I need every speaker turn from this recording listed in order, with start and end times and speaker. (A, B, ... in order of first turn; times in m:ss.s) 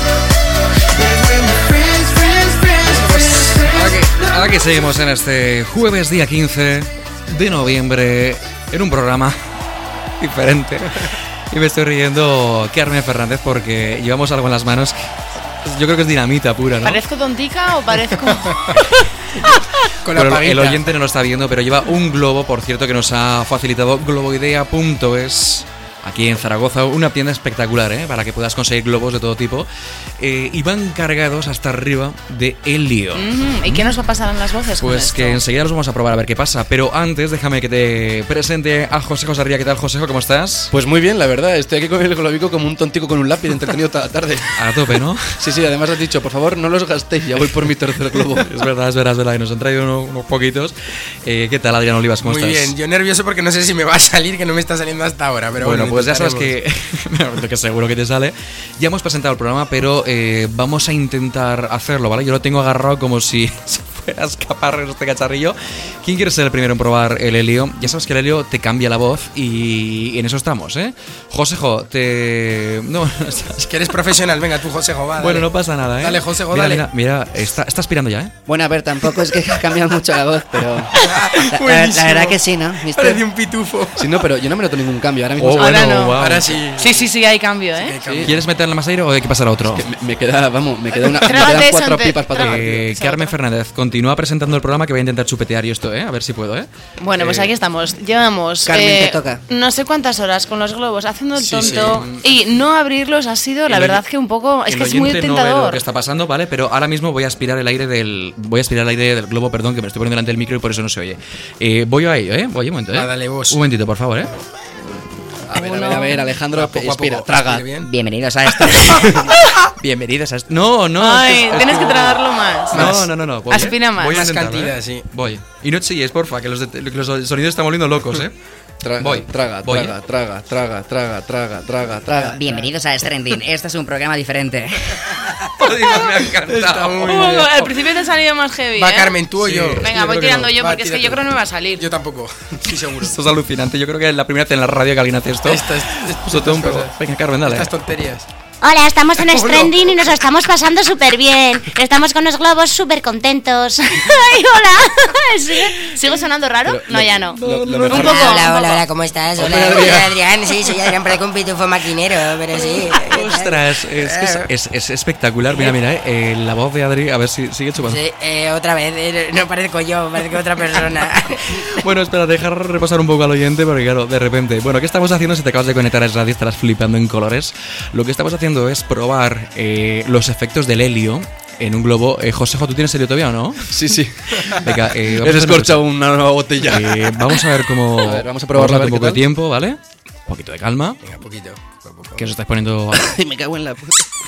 0:02.8-0:04.1 A
0:03.7-0:09.4 B
0:10.2-0:15.0 B
0:15.6-0:17.0 B
0:16.8-0:18.5 C
0:18.5-0:18.7 A
0:18.8-0:29.7 B
0:20.0-0:20.8 A
0:30.2-0:33.9 B
0:33.2-0:35.4 C
0:34.8-0:40.7 B
0:40.7-0:44.6 D
0:44.6-0:45.2 B
0:45.4-0:48.5 D
0:48.4-0:52.7 B
0:52.2-0:56.6 A
0:55.6-1:13.7 B
1:13.7-1:16.8 A
1:15.2-1:18.3 B
1:18.5-1:20.7 E
1:21.0-1:24.1 A
1:21.6-1:23.2 E
1:24.0-1:26.1 D
1:25.4-1:26.6 B
1:25.6-1:26.2 C
1:26.1-1:27.1 A
1:26.8-1:27.9 C
1:27.7-1:28.4 A
1:28.0-1:28.3 D
1:28.2-1:29.8 B
1:29.7-1:32.9 D
1:31.2-1:33.3 C
1:32.3-1:37.5 B
1:37.0-1:45.8 C
1:38.6-1:39.4 E
1:41.4-1:42.0 A
1:41.4-1:42.2 B
1:43.7-1:44.0 B
1:44.7-1:54.3 B
1:52.9-1:53.6 A
1:55.5-1:57.4 D
1:55.6-1:56.1 C
1:56.5-1:57.9 A
1:57.3-1:59.3 E
1:59.8-2:08.3 B
2:01.0-2:02.8 C
2:02.7-2:03.1 A
2:03.5-2:04.2 C
2:04.0-2:05.0 A
2:08.8-2:12.4 D
2:09.0-2:09.9 B
2:12.1-2:15.1 E
2:15.6-2:17.7 B
2:16.4-2:17.5 A
2:17.1-2:19.2 C
2:18.7-2:23.2 A
2:19.4-2:20.1 B
2:19.8-2:21.8 C
2:23.0-2:27.7 B
2:25.4-2:28.2 A
2:28.6-2:35.9 F
2:29.2-2:29.8 A
2:35.9-2:36.8 C
2:36.5-2:37.3 F
2:36.6-2:38.3 D
2:37.3-2:38.6 B
2:38.0-2:38.4 C
2:38.0-2:44.5 G
2:39.4-2:40.2 D
2:43.0-2:48.0 B
2:45.5-2:45.8 G
2:47.8-2:51.4 G
2:51.3-3:03.7 B
3:03.7-3:07.5 D
3:04.4-3:05.8 B
3:06.6-3:11.0 B
3:08.0-3:09.2 D
3:11.0-3:12.2 A
3:12.2-3:13.1 B
3:12.9-3:14.0 D